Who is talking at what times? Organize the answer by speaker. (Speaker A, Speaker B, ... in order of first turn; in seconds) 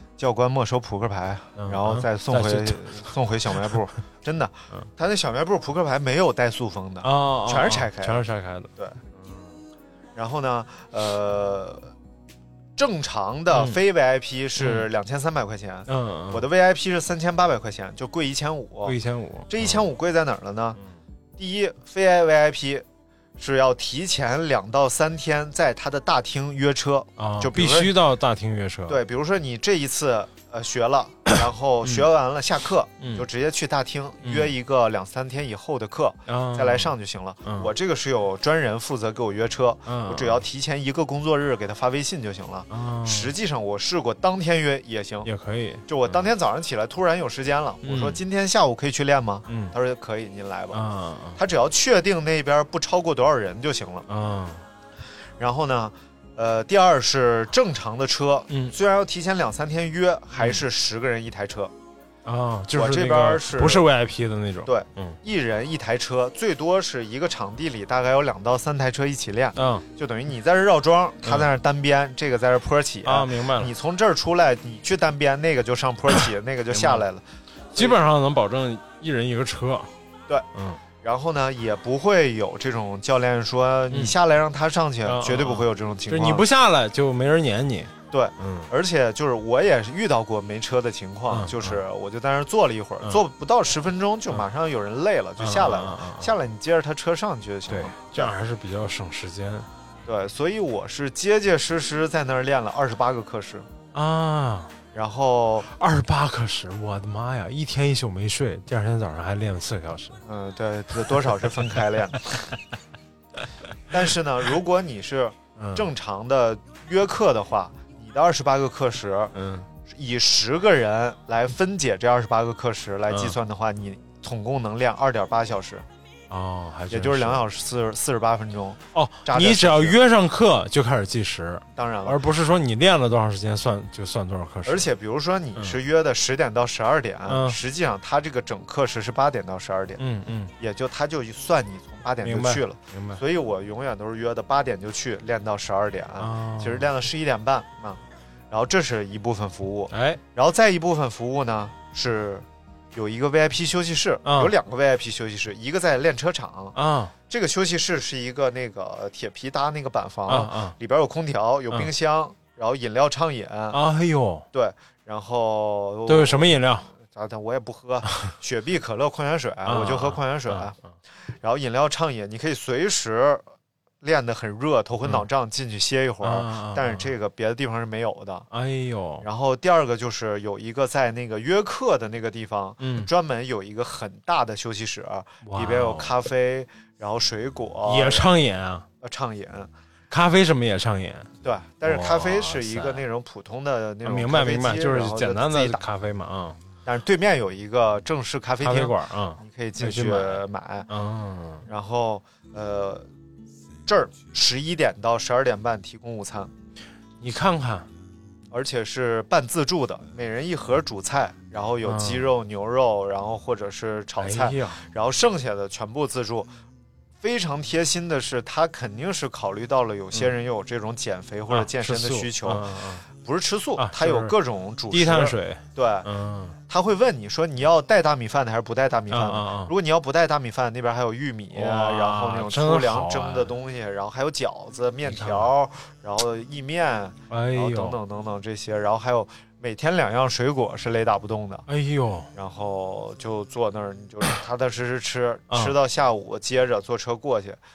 Speaker A: 0.2-8.2, 10.2-11.9, 12.8-19.0, 19.5-20.8, 21.4-22.9, 23.4-28.0, 28.9-45.3, 45.9-50.8, 51.4-54.1, 55.4-61.7, 62.7-63.9, 64.7-77.2, 81.0-86.5, 88.1-98.3, 100.1-103.7, 104.9-105.7, 110.2-112.5, 113.9-119.3, 119.9-125.9, 126.9-130.0, 131.8-132.2, 134.6-140.0, 140.6-156.8, 157.3-163.8, 164.5-170.8, 171.4-173.4, 174.0-178.5, 179.2-188.3, 189.0-189.7, 191.4-195.8, 196.9-200.9, 201.7-203.1, 203.9-206.5, 208.5-216.5, 217.2-226.1, 226.7-241.7, 242.3-247.6
Speaker B: 1.6-2.9, 7.0-9.4, 13.5-13.8, 14.6-14.9, 15.9-16.4, 18.9-19.8, 27.2-29.0, 33.0-33.3, 34.2-34.5, 36.3-36.9, 37.4-37.7, 39.9-40.4, 42.7-43.3, 45.2-46.3, 47.8-48.2, 49.5-49.7, 50.7-51.4, 54.1-54.6, 60.4-60.6, 62.2-65.2, 69.6-69.8, 73.0-73.7, 76.7-77.0, 77.7-79.9, 80.5-80.8, 85.0-88.7, 91.3-91.8, 95.4-96.3, 97.7-99.7, 103.9-104.7, 105.7-110.2, 115.6-115.9, 119.3-119.7, 123.1-123.3, 126.3-127.4, 128.9-134.9, 137.3-137.6, 140.0-140.5, 142.2-143.2, 146.2-146.9, 149.9-150.2, 154.2-154.5, 156.7-157.1, 160.3-160.7, 163.7-164.4, 166.1-166.9, 169.7-170.7, 176.2-177.1, 178.5-179.2, 182.8-183.1, 185.4-186.1, 187.9-188.9, 190.1-191.3, 191.8-193.0, 194.1-196.6, 198.6-201.6, 207.2-207.9, 211.8-212.3, 214.2-214.8, 221.5-223.1, 223.8-224.3, 224.9-226.6, 229.1-229.7, 231.5-233.6, 235.1-235.5, 237.3-238.0, 241.7-242.3, 245.5-245.8